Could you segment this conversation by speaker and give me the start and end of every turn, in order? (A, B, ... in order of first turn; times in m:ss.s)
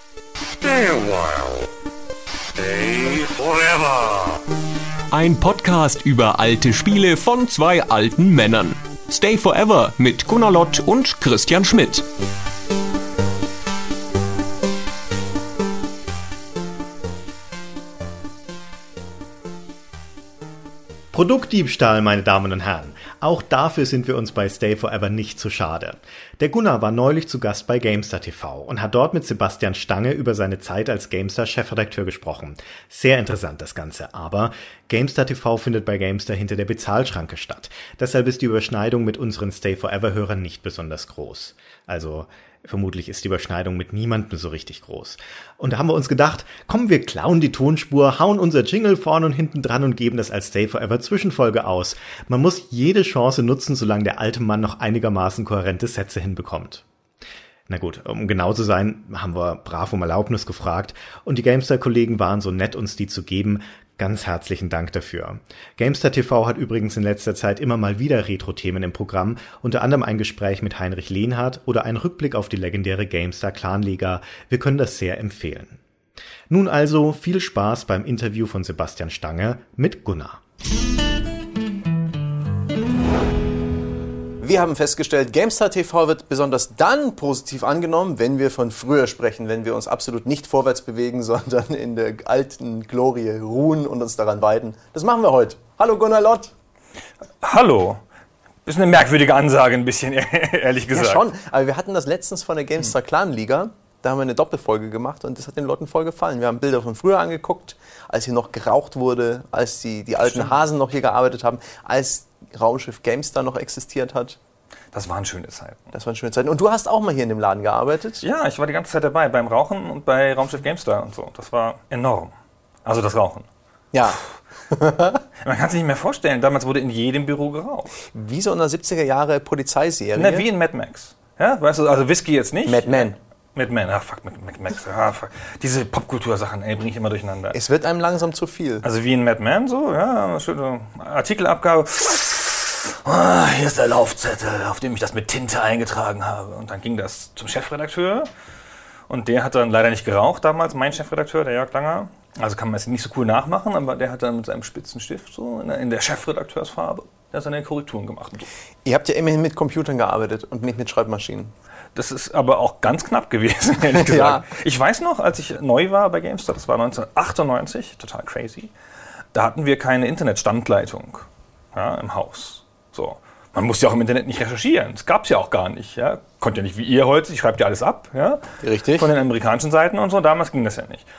0:00.6-0:01.6 A
0:02.6-0:04.4 A
0:05.1-0:12.0 B
0:21.1-0:56.8 C
0:57.7-1:15.8 C
1:16.5-1:20.4 C
1:24.4-1:36.5 D
1:37.4-1:38.0 E
1:38.7-1:41.3 E
1:40.9-1:54.4 D
1:54.9-1:55.9 E
1:55.9-1:58.2 D
1:58.2-2:02.3 E
2:02.8-2:03.5 E
2:03.9-2:05.2 D
2:05.4-2:08.0 E
2:08.0-2:10.5 D
2:10.2-2:17.6 E
2:12.7-2:13.2 D
2:17.5-2:18.8 D
2:18.8-2:28.3 E
2:29.1-2:38.5 E
2:38.8-2:41.5 D
2:42.0-2:48.7 E
2:43.9-2:44.5 D
2:49.3-3:01.1 E
2:58.6-2:59.1 D